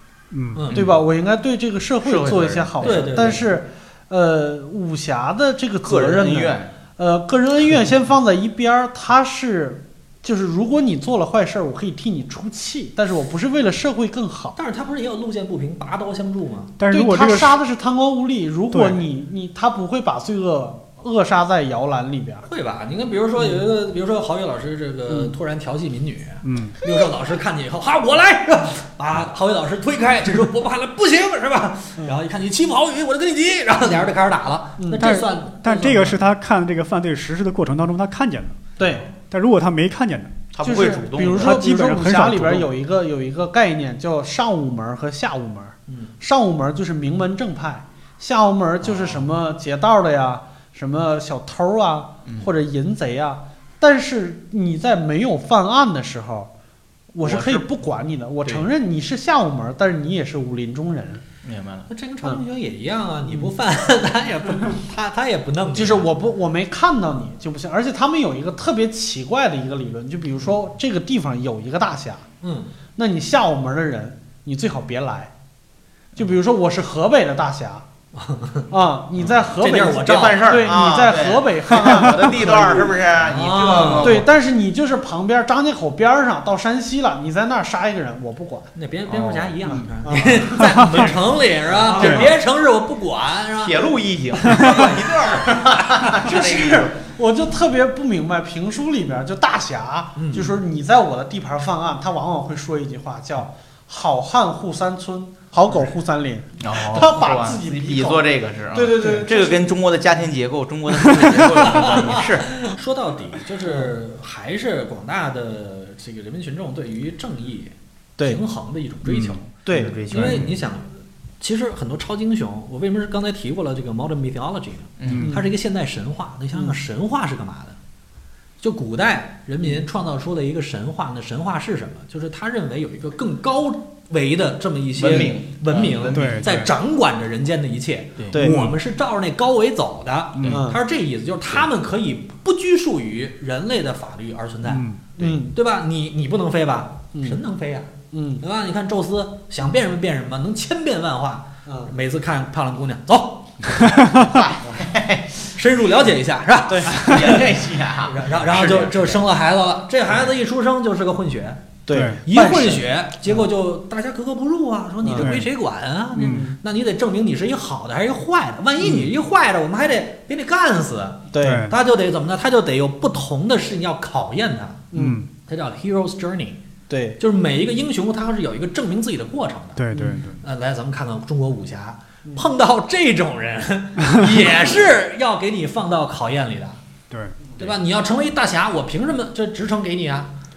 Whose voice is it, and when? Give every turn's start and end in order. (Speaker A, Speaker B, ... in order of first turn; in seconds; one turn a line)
Speaker A: 0.3-0.7
Speaker B: 0.6-0.8
Speaker C: 0.7-14.6
Speaker D: 2.0-3.5
Speaker B: 2.8-3.5
Speaker D: 5.8-6.7
Speaker B: 14.6-16.7
Speaker A: 16.8-17.6
Speaker C: 16.9-22.5
Speaker A: 18.7-19.0
Speaker B: 22.5-36.2
Speaker C: 25.1-25.3
Speaker A: 26.4-26.8
Speaker C: 34.8-35.1
Speaker A: 35.0-38.6
Speaker C: 38.8-39.1
Speaker A: 39.3-40.4
Speaker D: 40.5-41.7
Speaker C: 40.6-56.5
Speaker A: 41.4-42.7
Speaker D: 48.8-49.2
Speaker D: 52.2-52.5
Speaker C: 57.1-61.2
Speaker D: 57.2-57.7
Speaker D: 61.4-61.9
Speaker B: 61.9-66.1
Speaker C: 63.3-63.5
Speaker C: 65.7-72.2
Speaker B: 72.4-72.7
Speaker C: 73.0-75.3
Speaker C: 76.2-77.8
Speaker B: 78.2-78.7
Speaker C: 78.7-83.0
Speaker D: 79.2-79.4
Speaker B: 79.6-80.7
Speaker D: 80.0-84.3
Speaker B: 83.2-84.2
Speaker C: 84.0-88.7
Speaker B: 88.8-96.1
Speaker D: 89.1-89.6
Speaker C: 90.0-91.1
Speaker A: 90.6-90.9
Speaker C: 91.8-92.2
Speaker D: 91.9-92.3
Speaker D: 93.6-96.9
Speaker C: 96.1-109.7
Speaker B: 100.2-100.6
Speaker D: 106.6-112.7
Speaker B: 106.9-108.2
Speaker B: 111.5-119.5
Speaker A: 119.1-119.4
Speaker C: 119.7-120.4
Speaker D: 119.7-120.6
Speaker B: 120.1-127.8
Speaker D: 125.0-125.3
Speaker A: 125.0-125.3
Speaker C: 125.2-125.5
Speaker B: 128.6-144.9
Speaker D: 135.0-136.6
Speaker A: 136.1-136.7
Speaker C: 138.3-138.7
Speaker A: 138.4-138.8
Speaker A: 140.3-140.6
Speaker C: 140.5-140.8
Speaker A: 144.7-145.0
Speaker C: 145.2-145.6
Speaker B: 145.4-154.0
Speaker C: 147.1-147.4
Speaker C: 148.1-148.4
Speaker C: 151.7-151.9
Speaker D: 154.0-155.6
Speaker B: 155.5-174.9
Speaker C: 156.7-157.2
Speaker D: 156.9-159.3
Speaker C: 161.9-163.5
Speaker A: 161.9-162.2
Speaker C: 165.0-165.4
Speaker A: 165.2-165.5
Speaker A: 166.2-166.5
Speaker C: 166.2-166.6
Speaker C: 171.3-171.7
Speaker A: 171.4-171.8
Speaker C: 174.9-175.2
Speaker A: 174.9-175.3
Speaker B: 175.5-176.6
Speaker C: 176.9-177.2
Speaker B: 177.2-186.8
Speaker A: 179.8-180.4
Speaker C: 179.9-180.3
Speaker A: 187.1-187.4
Speaker B: 187.6-190.3